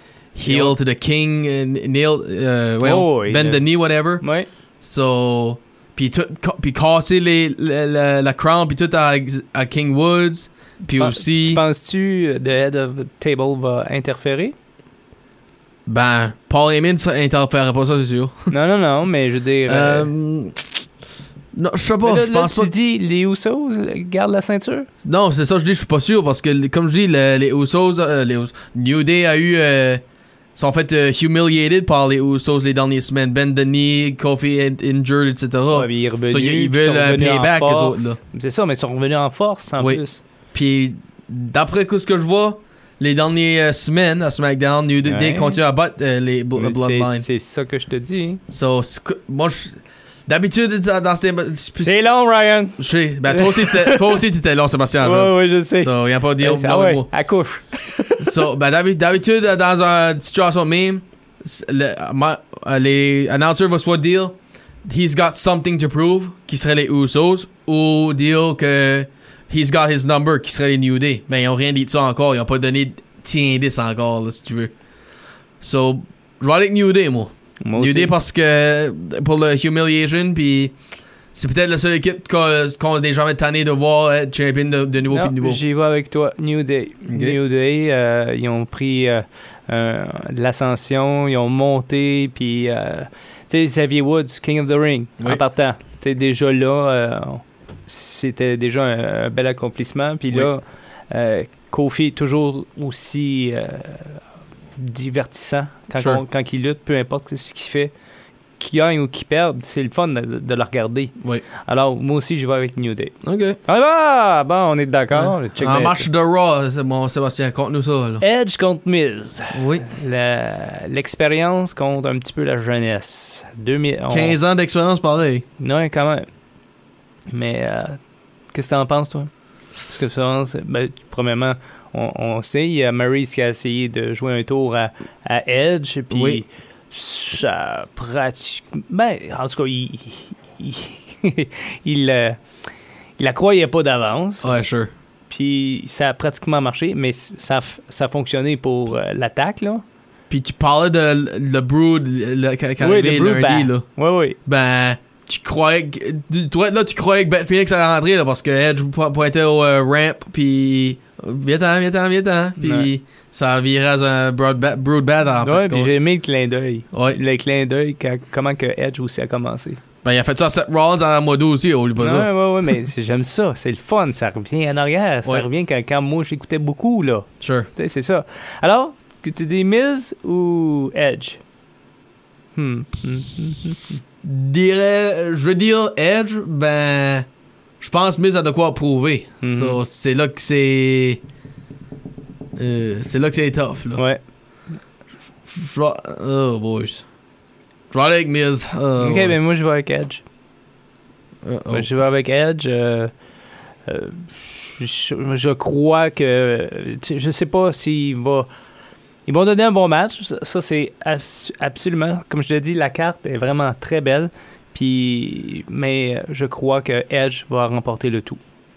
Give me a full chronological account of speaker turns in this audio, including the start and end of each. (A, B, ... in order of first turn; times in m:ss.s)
0:00.3-0:04.2 A
0:00.4-0:00.8 B
0:02.8-0:04.5 B
0:04.8-0:11.6 A
0:11.0-0:14.5 B
0:15.8-0:18.5 A
0:18.5-0:20.1 B
0:19.7-0:20.7 A
0:21.5-0:22.7 A
0:22.0-0:24.9 B
0:25.0-0:30.0 A
0:30.5-0:38.2 A
0:35.7-0:40.2 B
0:40.5-0:47.3 A
0:45.0-0:45.6 B
0:46.5-0:48.4 B
0:48.5-0:52.0 A
0:51.8-0:54.2 B
0:52.8-0:57.1 A
0:55.0-0:58.5 B
0:58.2-1:14.7 A
1:15.6-1:20.7 A
1:17.6-1:18.1 B
1:21.3-1:25.6 A
1:25.1-1:44.2 B
1:27.1-1:27.4 A
1:44.8-1:47.9 B
1:46.0-1:46.2 A
1:48.6-1:56.1 B
1:53.2-1:53.6 A
1:55.1-1:58.2 A
1:58.2-2:04.4 B
1:59.5-1:59.9 A
2:04.1-2:05.4 A
2:05.6-2:06.3 B
2:07.3-2:08.0 B
2:08.5-2:09.3 B
2:09.8-2:22.4 B
2:16.1-2:16.4 A
2:23.2-2:24.6 B
2:24.4-2:24.9 A
2:25.3-2:29.8 B
2:30.3-2:33.8 A
2:32.8-2:34.4 B
2:34.4-2:45.9 A
2:42.6-2:42.9 B
2:45.4-2:49.8 B
2:46.9-2:47.2 A
2:50.0-2:52.3 A
2:52.0-3:01.4 B
2:57.4-2:57.7 A
3:02.5-3:04.0 B
3:04.2-3:07.2 A
3:07.8-3:11.2 A
3:09.4-3:09.8 B
3:12.6-3:14.0 A
3:14.0-3:14.2 B
3:15.5-3:17.0 A
3:17.9-3:19.4 A
3:19.0-3:20.2 B
3:21.4-3:21.9 A
3:21.7-3:23.1 B
3:23.8-3:28.5 B
3:29.2-3:38.4 B